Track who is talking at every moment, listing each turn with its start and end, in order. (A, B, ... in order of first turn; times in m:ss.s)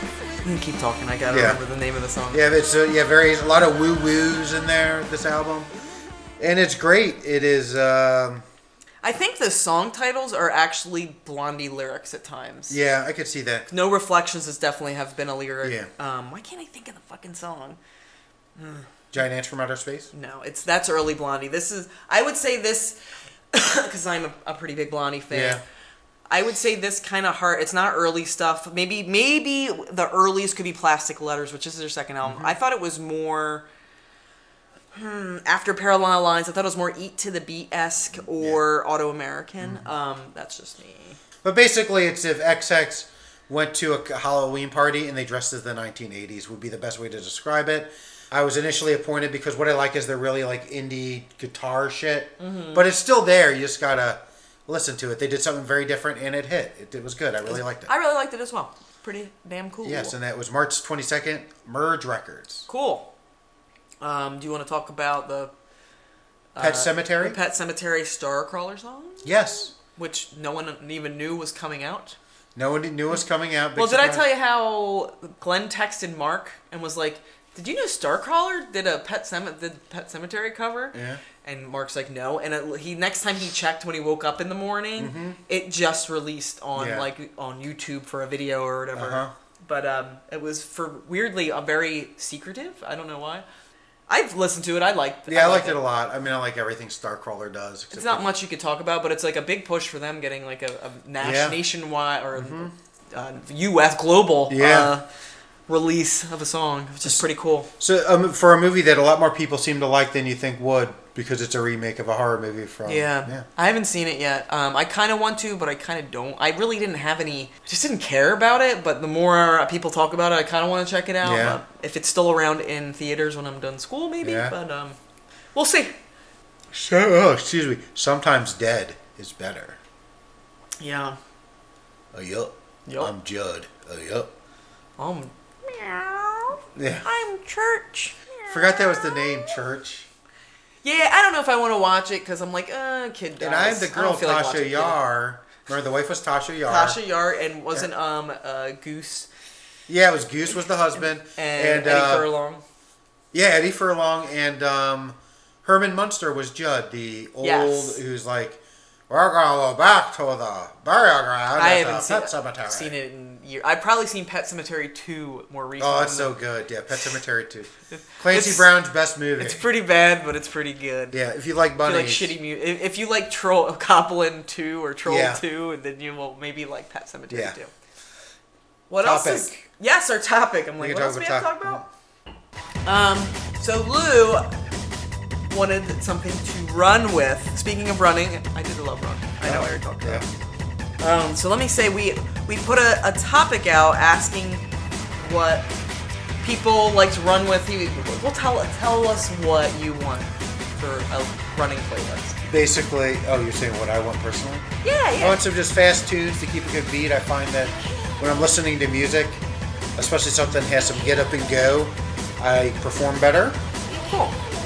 0:00.4-0:02.4 A
0:01.3-0:01.6 B
0:02.3-0:05.7 B
0:06.4-0:08.4 B
0:09.0-0:12.8 A
0:12.7-0:13.7 B
0:13.7-0:17.8 A
0:15.6-0:15.9 B
0:18.6-0:18.9 A
0:19.1-0:20.1 B
0:20.1-0:23.0 A
0:23.5-0:25.6 A
0:25.3-0:25.6 B
0:26.3-0:33.6 A
0:32.2-0:32.5 B
0:34.9-0:41.2 A
0:41.4-0:57.9 B
0:52.4-0:52.8 A
0:57.5-1:00.1 A
0:59.8-1:02.7 B
1:02.7-1:03.1 A
1:04.0-1:05.5 A
1:06.6-1:12.2 A
1:06.6-1:07.4 B
1:09.2-1:09.7 B
1:12.5-1:14.2 B
1:13.8-1:33.4 A
1:20.9-1:21.2 B
1:25.0-1:25.4 B
1:26.8-1:27.1 B
1:28.9-1:29.3 B
1:34.1-1:35.8 A
1:35.3-1:38.3 B
1:37.9-1:45.0 A
1:41.2-1:41.6 B
1:42.3-1:42.7 B
1:44.5-1:44.9 B
1:45.7-1:47.7 A
1:47.8-1:53.4 B
1:52.8-2:05.0 A
2:01.2-2:01.6 B
2:04.2-2:04.5 B
2:05.5-2:05.9 A
2:06.7-2:09.8 B
2:10.8-2:11.2 A
2:12.1-2:14.3 B
2:12.9-2:13.1 A
2:15.0-2:19.5 A
2:16.8-2:17.0 B
2:18.5-2:20.1 B
2:20.8-2:25.0 A
2:23.4-2:27.0 B
2:26.6-2:29.3 A
2:29.9-2:32.3 B
2:31.3-2:32.6 A
2:33.3-2:42.9 B
2:37.4-2:38.0 A
2:41.6-2:46.3 A
2:45.8-2:49.6 B
2:47.9-2:48.7 A
2:49.4-2:51.2 A
2:51.1-2:52.3 B
2:51.8-2:57.7 A
2:55.0-2:55.4 B
2:57.3-2:57.6 B
2:58.9-3:01.8 A
2:59.0-2:59.6 B
3:00.8-3:01.9 B
3:02.8-3:04.5 A
3:05.5-3:10.3 A
3:09.4-3:10.3 B
3:11.0-3:14.6 A
3:15.2-3:15.7 A
3:16.4-3:22.4 A
3:22.5-3:24.6 B
3:24.8-3:25.4 A
3:25.2-3:29.4 B
3:30.0-3:33.6 B
3:34.0-3:34.4 A